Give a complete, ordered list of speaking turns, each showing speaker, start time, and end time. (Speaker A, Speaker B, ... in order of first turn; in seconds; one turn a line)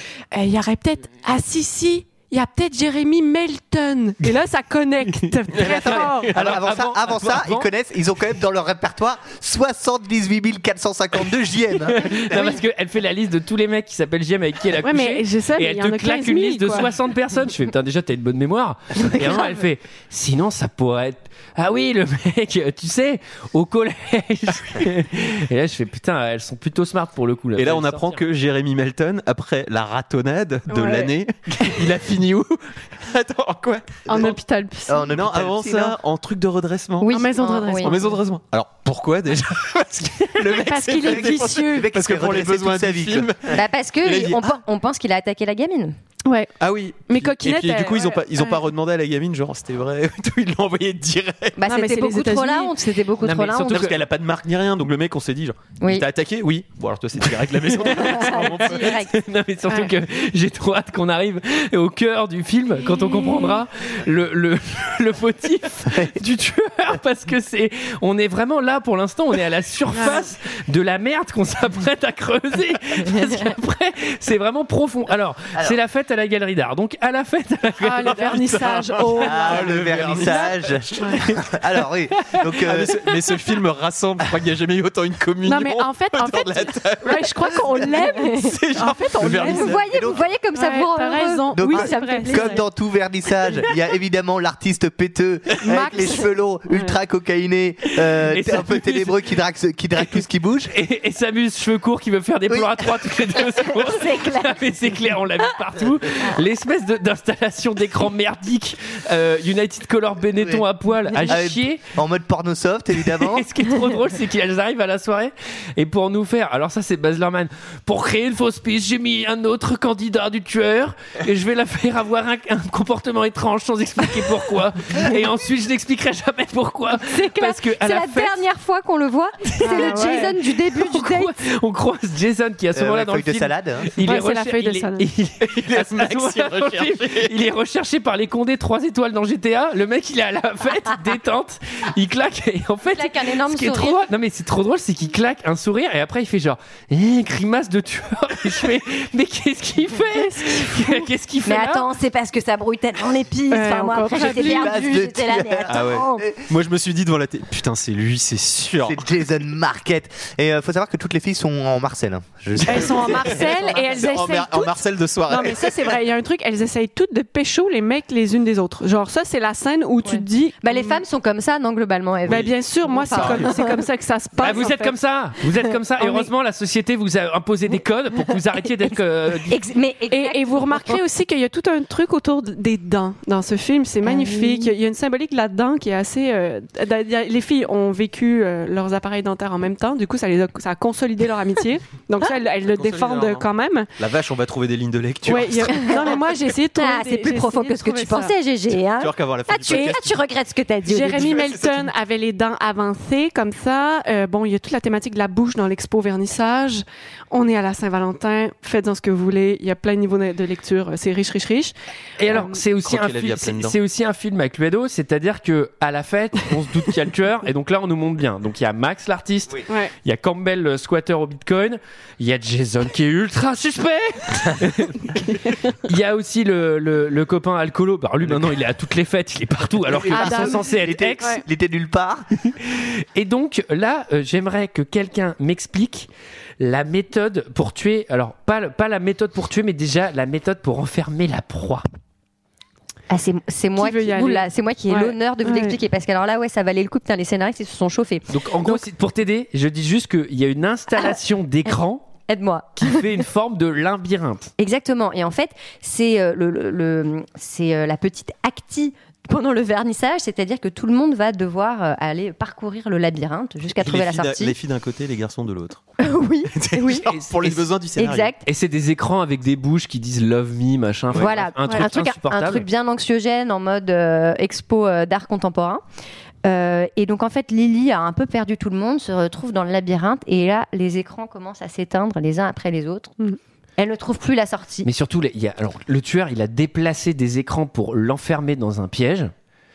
Speaker A: 0.3-6.3
Speaker B: 5.6-12.6
Speaker C: 5.9-7.7
Speaker C: 11.9-28.2
Speaker A: 14.8-16.9
Speaker D: 19.0-19.5
Speaker E: 27.6-34.4
Speaker A: 30.7-31.1
Speaker A: 34.1-35.1
Speaker B: 34.9-36.0
Speaker E: 35.1-37.2
Speaker D: 37.0-38.0
Speaker A: 37.1-38.2
Speaker E: 37.7-44.6
Speaker A: 40.4-41.9
Speaker B: 40.9-43.5
Speaker D: 43.5-46.0
Speaker A: 46.2-46.6
Speaker E: 46.6-51.6
Speaker A: 47.1-48.6
Speaker D: 51.6-53.9
Speaker A: 51.7-53.0
Speaker C: 53.2-54.0
Speaker E: 53.6-59.0
Speaker D: 55.8-56.1
Speaker C: 57.6-78.4
Speaker D: 58.0-59.1
Speaker A: 69.9-70.2
Speaker A: 77.8-81.2
Speaker E: 78.2-81.2
Speaker B: 79.2-83.0
Speaker E: 82.6-90.1
Speaker A: 85.4-89.8
Speaker D: 88.0-88.4
Speaker D: 89.4-92.6
Speaker B: 89.9-90.2
Speaker A: 90.5-92.6
Speaker B: 91.5-100.7
Speaker A: 95.6-97.0
Speaker C: 98.2-99.2
Speaker C: 100.7-111.8
Speaker B: 102.5-103.3
Speaker D: 103.8-104.6
Speaker B: 110.4-110.7
Speaker B: 111.2-113.5
Speaker C: 113.0-128.4
Speaker D: 127.0-131.3
Speaker C: 129.6-151.9
Speaker A: 129.6-130.4
Speaker B: 132.8-133.9
Speaker A: 134.0-135.1
Speaker E: 135.4-137.3
Speaker D: 142.9-144.0
Speaker A: 150.1-151.0
Speaker D: 151.5-156.2
Speaker A: 153.5-155.0
Speaker B: 154.2-156.4
Speaker E: 155.7-159.0
Speaker B: 158.9-163.4
Speaker A: 162.6-171.0
Speaker D: 163.5-163.8
Speaker E: 163.9-165.9
Speaker D: 170.0-173.8
Speaker A: 172.3-174.9
Speaker E: 173.1-173.6
Speaker C: 174.4-179.6
Speaker D: 179.5-181.0
Speaker A: 180.1-193.9
Speaker D: 184.0-184.7
Speaker E: 192.7-193.5
Speaker E: 194.0-196.0
Speaker A: 195.3-198.3
Speaker D: 195.8-196.2
Speaker D: 196.8-201.5
Speaker E: 198.7-200.2
Speaker A: 199.7-200.0
Speaker A: 200.9-211.7
Speaker E: 201.2-201.7
Speaker C: 212.2-225.2
Speaker E: 212.4-213.8
Speaker C: 225.8-231.4
Speaker B: 229.8-232.3
Speaker A: 230.1-231.4
Speaker C: 232.5-236.1
Speaker C: 236.6-241.8
Speaker D: 243.1-248.8
Speaker A: 243.8-245.8
Speaker C: 248.3-252.1
Speaker D: 252.3-253.1
Speaker C: 252.8-254.5
Speaker D: 254.6-264.6
Speaker E: 263.7-265.8
Speaker D: 266.0-267.1
Speaker E: 266.5-268.3
Speaker C: 267.1-267.6
Speaker D: 268.0-268.4
Speaker C: 268.4-272.7
Speaker D: 271.1-275.8
Speaker D: 276.4-283.1
Speaker D: 283.8-284.9
Speaker C: 284.8-289.3